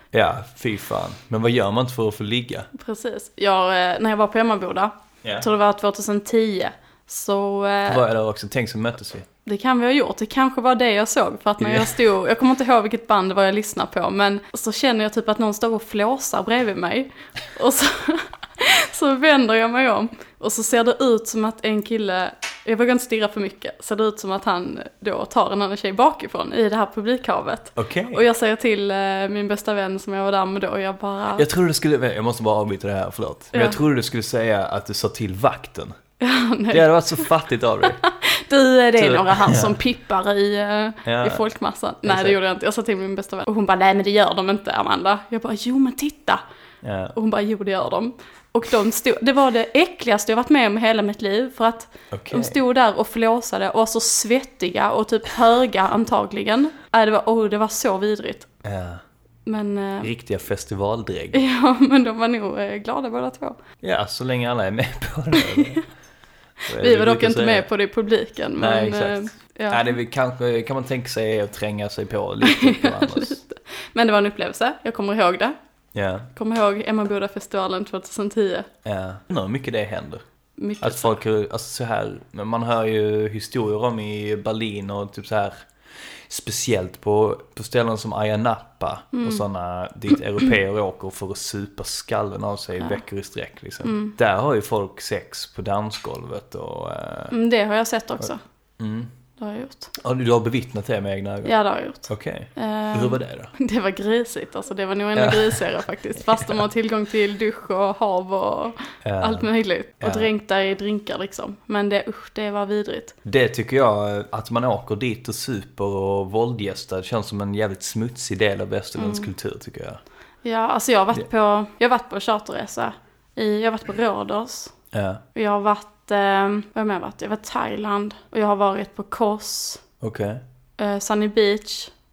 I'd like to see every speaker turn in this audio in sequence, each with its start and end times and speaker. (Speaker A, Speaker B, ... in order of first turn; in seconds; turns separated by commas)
Speaker A: 0.1-2.7, Speaker B: 2.7-8.0, Speaker A: 7.9-9.3, Speaker B: 9.4-31.4, Speaker A: 11.6-11.9, Speaker A: 27.8-28.2, Speaker A: 31.4-36.0, Speaker B: 33.5-33.8, Speaker B: 36.2-37.3, Speaker A: 36.7-38.0, Speaker B: 37.9-46.4, Speaker A: 39.0-39.8, Speaker A: 41.0-41.4, Speaker A: 42.0-42.4, Speaker A: 46.8-47.1, Speaker B: 47.1-58.5, Speaker A: 52.1-52.6, Speaker A: 58.6-59.0, Speaker B: 59.5-60.1, Speaker A: 60.0-61.4, Speaker B: 61.3-63.6, Speaker A: 63.8-65.8, Speaker B: 65.4-65.8, Speaker B: 66.7-69.9, Speaker A: 66.7-67.7, Speaker A: 68.6-73.4, Speaker B: 72.4-75.6, Speaker A: 75.9-76.3, Speaker B: 76.3-78.7, Speaker A: 78.8-80.2, Speaker B: 80.6-81.2, Speaker A: 80.8-85.7, Speaker A: 86.3-97.3, Speaker B: 89.1-89.4, Speaker B: 93.8-94.2, Speaker B: 97.3-98.4, Speaker A: 98.8-99.1, Speaker B: 99.4-99.9, Speaker A: 100.0-101.6, Speaker B: 101.5-113.2, Speaker A: 102.1-103.5, Speaker A: 105.2-105.7, Speaker A: 106.3-106.6, Speaker A: 109.0-109.5, Speaker A: 110.0-110.3, Speaker A: 113.2-120.0, Speaker B: 119.0-119.3, Speaker B: 120.4-124.7, Speaker A: 124.9-125.2, Speaker B: 125.3-129.8, Speaker A: 130.0-130.4, Speaker B: 130.8-131.9